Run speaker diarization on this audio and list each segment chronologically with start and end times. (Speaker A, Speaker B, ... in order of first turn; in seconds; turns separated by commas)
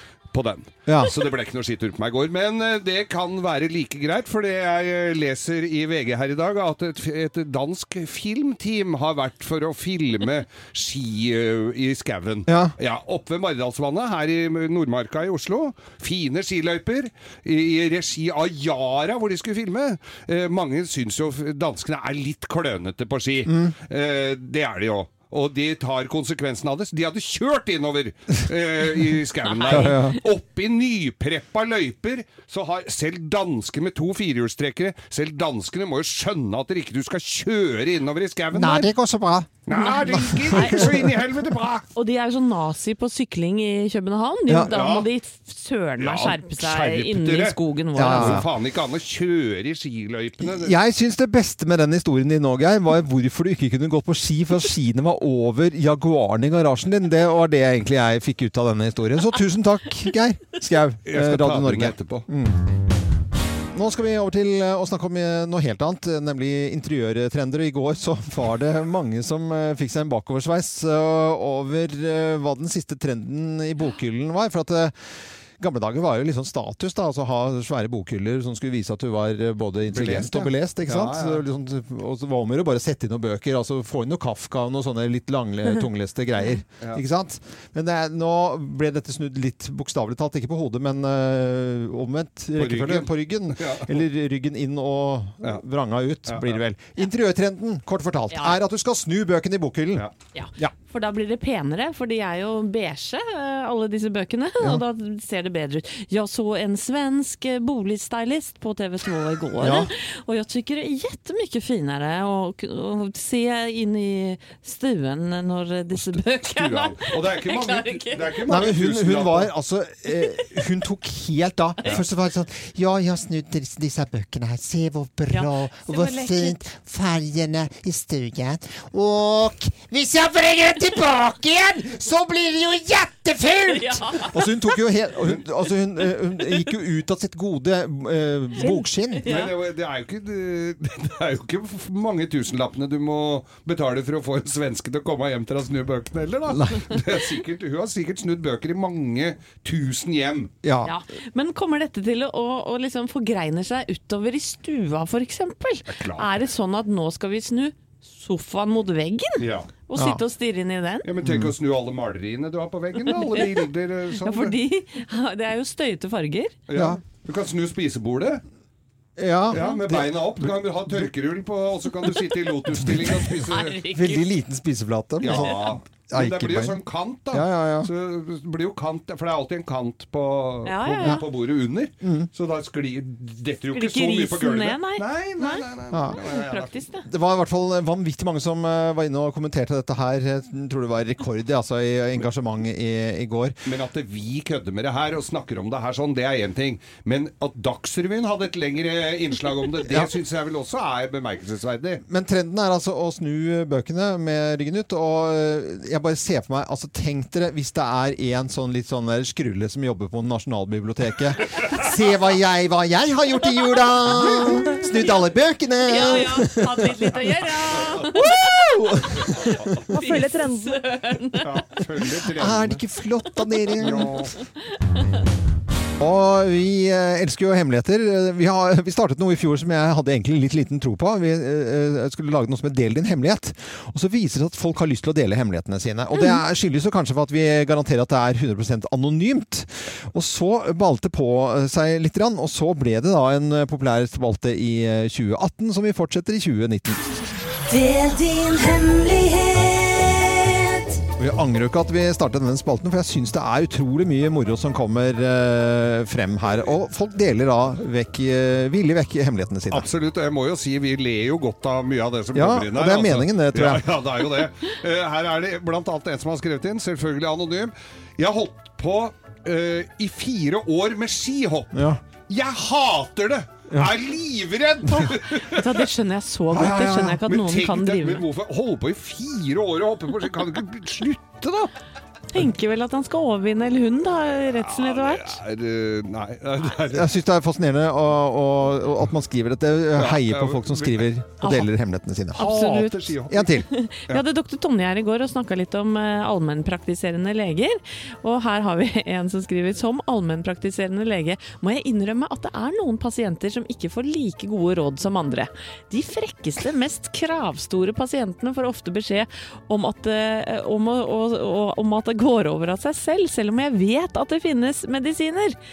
Speaker A: 0.3-38.9, Speaker B: 0.9-1.2, Speaker B: 12.5-12.8, Speaker B: 23.5-23.7, Speaker C: 29.4-30.0, Speaker B: 29.7-30.2, Speaker B: 38.5-41.1, Speaker A: 39.7-41.9, Speaker C: 40.5-40.9, Speaker C: 42.0-48.4, Speaker B: 44.5-44.8, Speaker A: 44.7-45.1, Speaker A: 46.0-50.8, Speaker B: 48.0-48.5, Speaker B: 50.4-62.7, Speaker A: 61.1-62.3, Speaker B: 63.7-75.0, Speaker B: 75.6-100.1, Speaker A: 79.9-81.4, Speaker A: 92.6-94.0, Speaker A: 96.3-96.6, Speaker C: 98.3-98.6, Speaker C: 100.3-118.5, Speaker B: 109.6-109.9, Speaker A: 116.0-119.5, Speaker B: 118.5-139.3, Speaker C: 125.3-126.6, Speaker C: 133.7-134.4, Speaker C: 138.6-139.5, Speaker A: 139.3-150.5, Speaker B: 146.5-146.8, Speaker B: 150.6-150.9, Speaker C: 150.8-161.1, Speaker A: 155.9-156.5, Speaker A: 159.4-159.7, Speaker B: 160.0-160.2, Speaker A: 161.0-164.6, Speaker B: 161.2-161.5, Speaker C: 163.1-163.6, Speaker C: 164.2-166.6, Speaker A: 166.7-168.4, Speaker B: 166.7-167.0, Speaker B: 169.2-171.0, Speaker A: 169.5-173.8, Speaker B: 172.8-173.3, Speaker C: 173.5-174.3, Speaker B: 173.9-177.9, Speaker A: 175.2-186.7, Speaker C: 175.3-175.8, Speaker C: 180.7-181.2, Speaker B: 182.0-182.3, Speaker C: 183.7-187.1, Speaker B: 185.9-186.2, Speaker B: 187.1-193.6, Speaker A: 193.7-202.0, Speaker B: 202.1-217.3, Speaker C: 214.3-214.9, Speaker C: 215.8-221.6, Speaker B: 218.2-219.4, Speaker D: 219.9-220.8, Speaker A: 221.4-222.8, Speaker B: 222.3-224.1, Speaker A: 223.8-224.3, Speaker C: 223.8-224.2, Speaker B: 226.0-247.1, Speaker D: 247.7-251.0, Speaker B: 251.2-259.9, Speaker A: 259.7-275.9, Speaker B: 262.3-263.9, Speaker B: 271.7-272.0, Speaker B: 273.7-273.9, Speaker C: 275.4-278.2, Speaker B: 276.5-277.2, Speaker A: 277.3-281.7, Speaker C: 282.3-285.4, Speaker A: 284.6-287.1, Speaker B: 286.9-292.7, Speaker A: 289.9-291.1, Speaker C: 291.4-291.7, Speaker C: 292.4-315.6, Speaker A: 292.4-294.2, Speaker B: 293.3-293.7